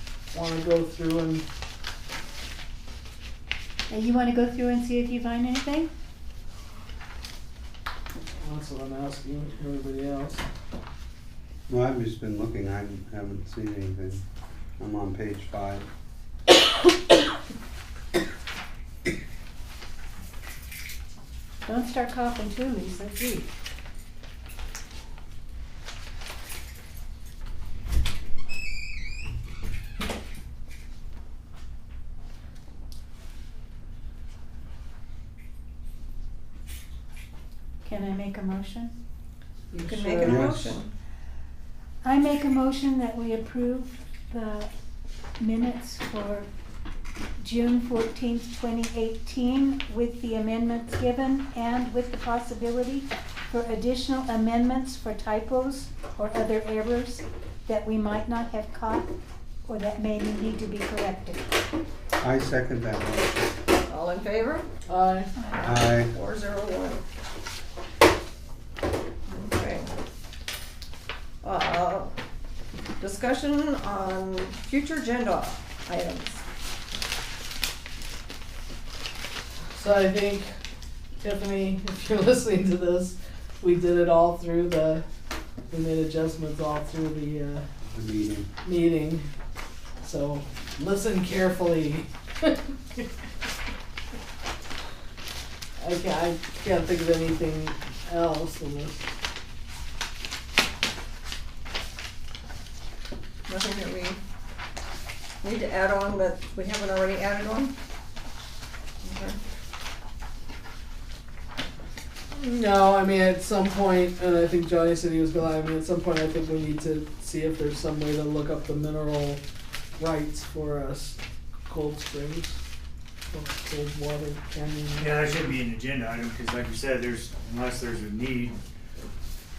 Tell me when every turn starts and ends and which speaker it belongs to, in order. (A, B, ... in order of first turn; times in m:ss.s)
0:00.3-0:01.4 A
0:03.9-0:05.9 B
0:08.4-0:10.4 A
0:11.7-0:14.2 C
0:14.8-0:15.9 C
0:21.6-0:23.5 B
0:37.8-0:38.9 B
0:39.7-0:40.8 A
0:39.8-0:40.9 D
0:40.2-0:40.6 C
0:42.0-0:44.7 B
0:45.4-0:46.5 B
0:47.4-0:59.1 B
0:59.7-1:01.5 B
1:02.2-1:03.5 C
1:03.8-1:04.7 D
1:04.9-1:05.3 A
1:05.4-1:05.6 B
1:05.5-1:07.0 D
1:05.6-1:06.1 C
1:09.3-1:09.9 D
1:11.4-1:12.1 D
1:13.0-1:16.4 D
1:19.7-1:20.5 A
1:21.2-1:25.0 A
1:25.7-1:27.6 A
1:27.9-1:28.5 C
1:28.6-1:29.3 A
1:30.0-1:33.0 A
1:35.8-1:39.0 A
1:43.5-1:44.2 D
1:45.4-1:47.7 D
1:49.0-1:49.4 D
1:52.3-1:59.4 A
2:00.0-2:02.6 A
2:03.3-2:05.6 A
2:05.0-2:08.6 E